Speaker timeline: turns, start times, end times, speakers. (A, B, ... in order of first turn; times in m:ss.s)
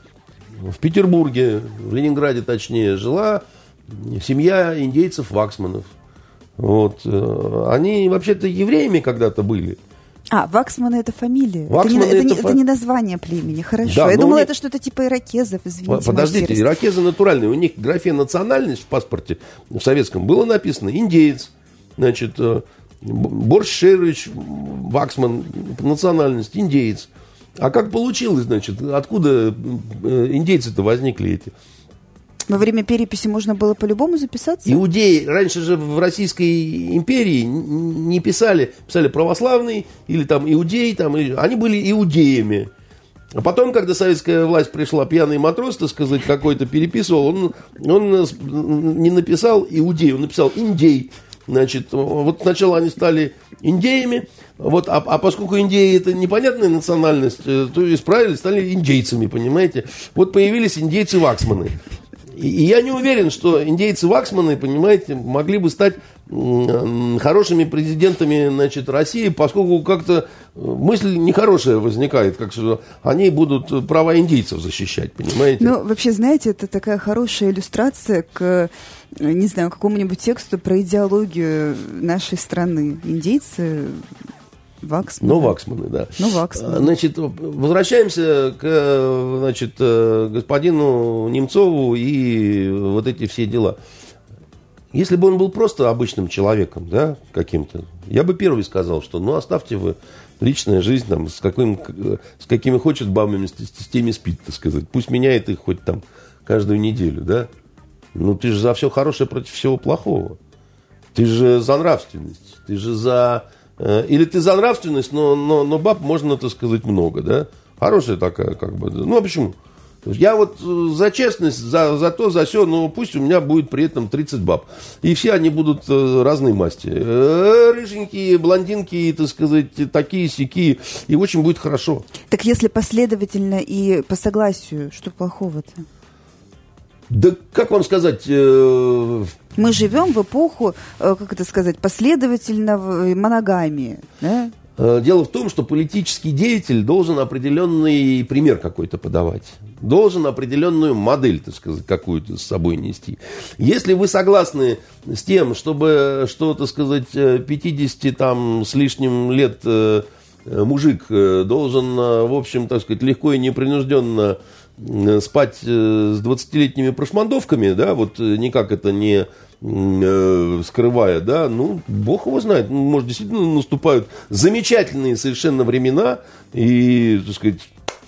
0:00.6-0:05.9 A
0:06.6-0:09.8 A
0:10.3-0:16.8 B
0:11.7-0:12.6 A
0:13.8-0:14.5 A
0:15.9-0:31.5 A
0:32.5-0:34.8 B
0:34.6-0:42.7 A
0:43.3-1:01.8 A
1:02.3-1:15.7 A
1:15.6-1:24.1 B
1:24.8-1:25.6 B
1:25.2-1:33.8 A
1:26.2-1:26.9 B
1:34.9-1:47.5 A
1:48.1-1:50.4 A
1:51.1-2:12.1 A
2:12.3-2:15.8 B
2:17.1-2:19.4 A
2:19.6-2:24.5 B
2:24.8-2:57.7 A